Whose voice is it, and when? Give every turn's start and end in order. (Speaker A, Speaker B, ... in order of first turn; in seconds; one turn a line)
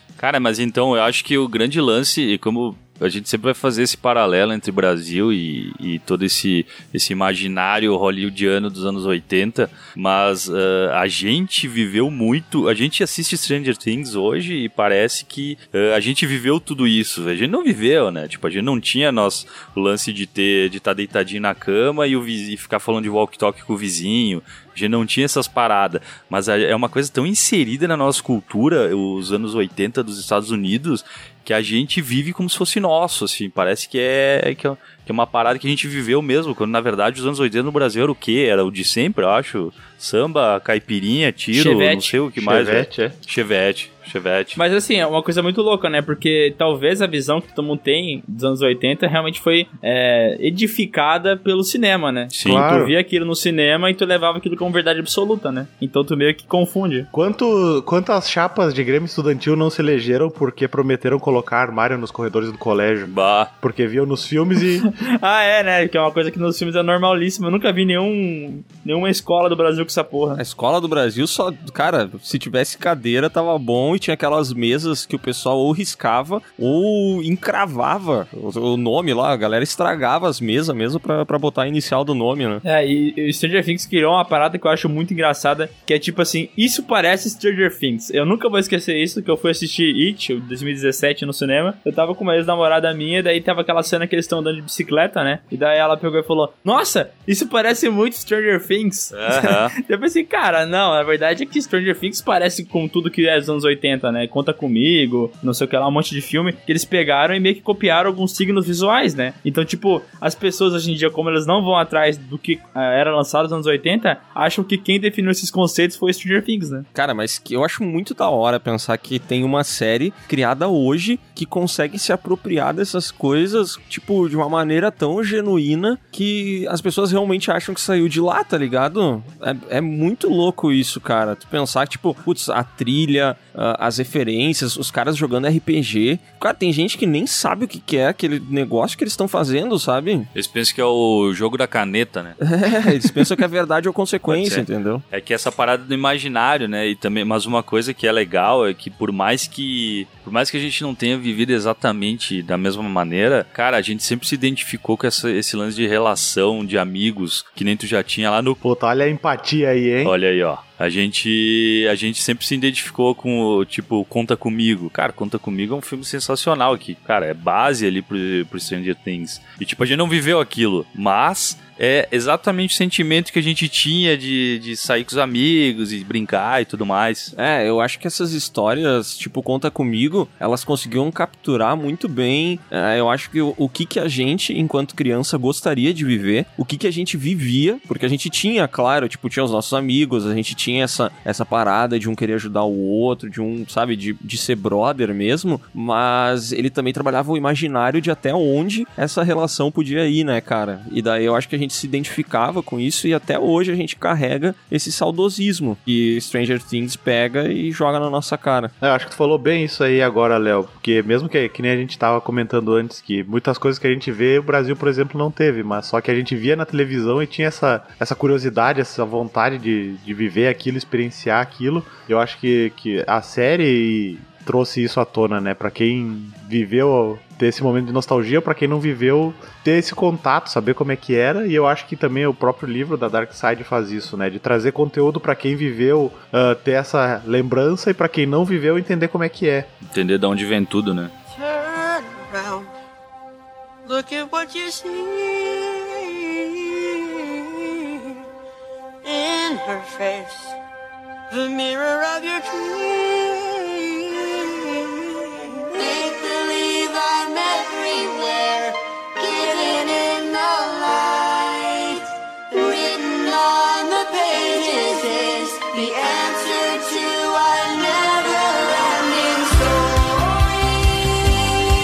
Speaker A: 0.2-44.6
Speaker B: 41.5-42.1
Speaker C: 42.4-43.1
Speaker B: 44.6-57.1
Speaker A: 52.3-52.6
Speaker C: 52.5-52.9
Speaker C: 57.1-64.9
Speaker A: 63.1-63.5
Speaker B: 64.8-70.4
Speaker D: 70.4-82.6
Speaker B: 82.6-116.9
Speaker A: 99.1-99.8
Speaker D: 117.0-140.3
Speaker A: 140.3-142.4
Speaker D: 142.4-145.0
Speaker A: 144.3-158.6
Speaker C: 158.6-160.2
Speaker A: 160.0-177.3
Speaker D: 177.3-208.7
Speaker C: 208.8-239.7
Speaker A: 239.9-241.1
Speaker E: 241.3-242.7
Speaker E: 243.9-247.8
Speaker E: 249.0-250.6
Speaker E: 251.3-271.7